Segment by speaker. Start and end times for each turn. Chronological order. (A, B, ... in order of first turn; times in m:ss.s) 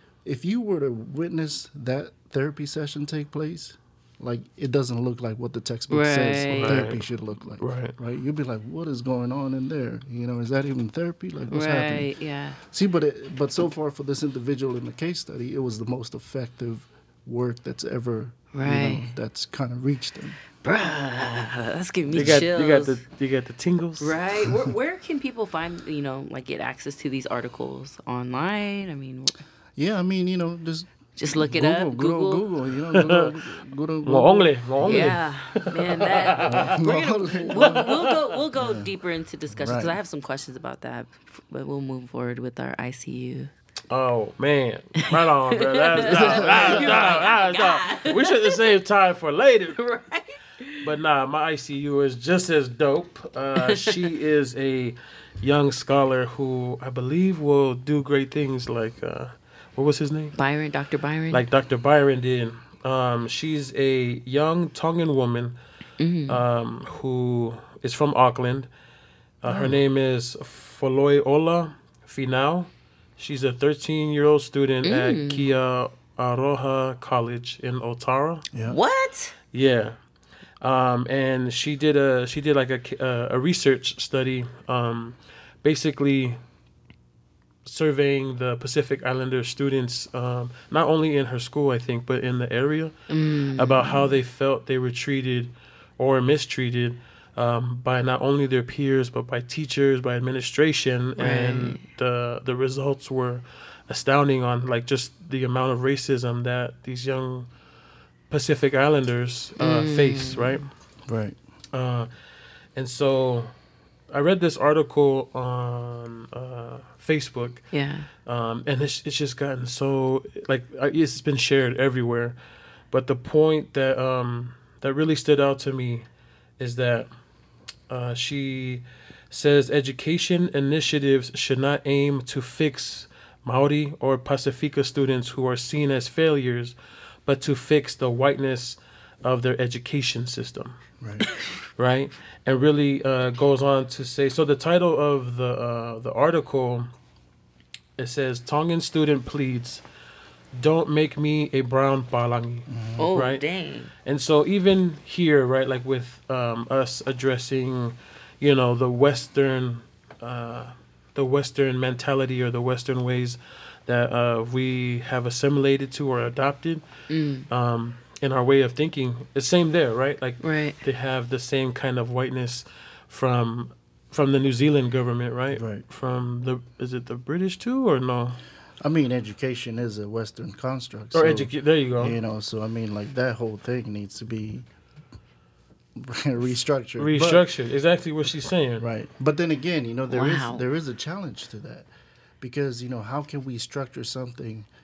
0:00.2-0:20.4 A
0:05.9-0:06.9 B
0:06.6-0:07.0 C
0:07.6-0:07.9 C
0:11.5-0:12.6 B
0:18.5-0:19.1 B
0:20.6-0:23.0 B
0:22.1-0:24.2 C
0:24.0-0:29.4 B
0:29.8-0:35.2 A
0:31.2-0:32.5 B
0:32.9-0:33.3 C
0:34.0-0:36.8 C
0:34.8-0:43.5 B
0:36.5-0:37.9 A
0:37.5-0:38.1 C
0:38.6-0:38.9 A
0:39.5-0:39.9 A
0:43.9-0:49.8 C
0:45.6-0:48.6 B
0:46.4-0:46.7 A
0:49.8-0:50.9 B
0:50.8-1:00.4 C
0:53.6-0:54.0 B
1:00.4-1:01.4 B
1:01.3-1:05.6 C
1:06.0-1:06.4 B
1:06.3-1:08.7 C
1:09.4-1:18.5 C
1:09.5-1:09.8 A
1:14.8-1:15.5 B
1:18.5-1:18.8 A
1:18.7-1:19.4 B
1:19.5-1:20.0 C
1:20.6-1:26.4 C
1:27.6-1:33.0 C
1:33.1-1:34.1 B
1:33.6-1:47.5 C
1:41.2-1:41.8 B
1:48.3-1:50.6 C
1:49.6-1:50.7 B
1:51.1-1:51.4 A
1:51.7-1:52.1 C
1:52.8-1:53.5 C
1:54.1-1:57.7 C
1:57.7-1:58.1 B
1:58.2-2:02.4 C
2:02.9-2:06.1 C
2:06.6-2:07.1 C
2:07.9-2:16.8 C
2:17.3-2:20.8 C
2:21.0-2:21.3 A
2:21.8-2:26.9 C
2:28.0-2:29.8 C
2:30.5-2:33.4 C
2:32.7-2:33.0 A
2:33.0-2:33.9 B
2:34.0-2:46.8 C
2:47.1-2:47.5 B
2:47.5-2:58.4 C
2:50.4-2:50.8 B
2:55.5-2:55.8 A
2:58.8-3:04.7 A
3:01.1-3:02.2 C
3:06.0-3:07.4 A
3:07.0-3:08.8 C
3:08.8-3:11.9 A
3:10.1-3:10.6 B
3:12.4-3:14.7 A